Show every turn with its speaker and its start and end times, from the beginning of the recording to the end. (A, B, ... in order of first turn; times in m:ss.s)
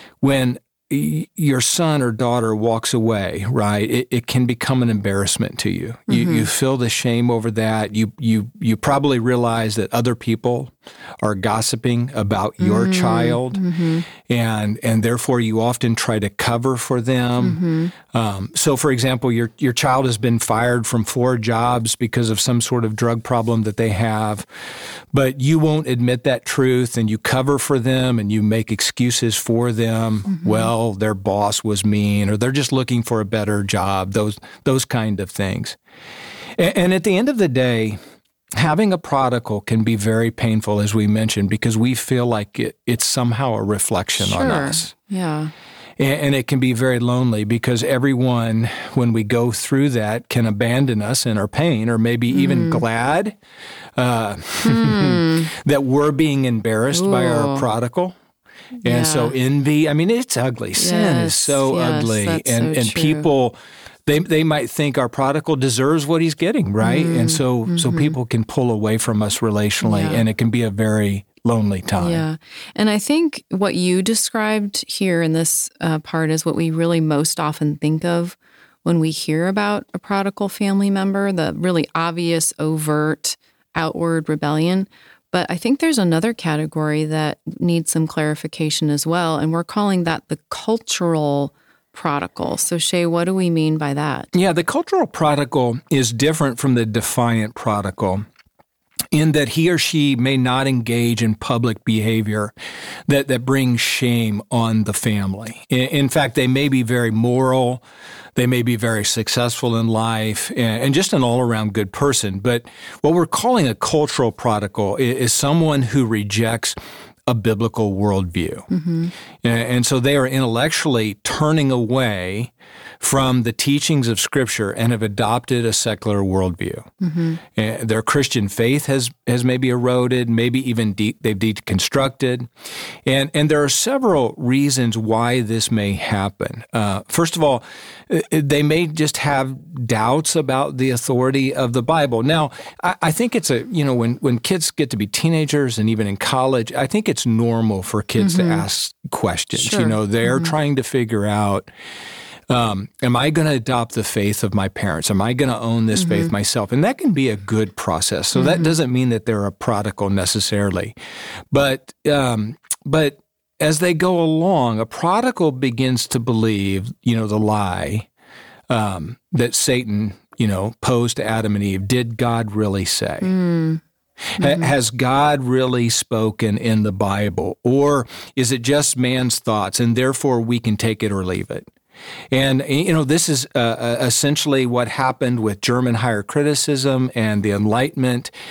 0:00.2-0:24.5 A
0:06.1-0:06.5 B
0:12.6-0:14.0 B
0:17.4-0:17.9 B
0:25.1-0:35.8 A
0:30.3-0:30.7 B
0:36.6-0:38.0 A
0:38.5-0:44.9 A
0:44.2-0:45.5 B
0:46.0-0:53.4 A
0:52.3-0:52.8 B
0:54.0-0:58.2 A
0:54.6-0:55.5 B
0:56.9-0:57.7 B
0:58.8-1:12.2 A
0:58.8-0:59.3 B
1:00.8-1:03.3 B
1:06.8-1:08.1 B
1:09.8-1:10.2 B
1:12.0-1:34.3 B
1:34.3-1:38.3 A
1:39.1-1:42.5 A
1:43.1-1:47.8 A
1:48.4-1:58.7 A
1:58.7-1:59.1 B
1:59.4-2:06.9 A
2:07.0-2:07.4 B
2:07.5-2:12.5 A
2:13.0-2:31.7 A
2:28.2-2:28.6 B
2:29.6-2:30.5 B
2:32.5-2:41.0 A
2:36.0-2:36.3 B
2:38.4-2:38.7 B
2:41.5-2:48.1 A
2:48.7-2:53.3 A
2:53.2-2:53.8 B
2:54.4-3:01.7 A
2:54.4-2:54.7 B
3:02.3-3:08.3 A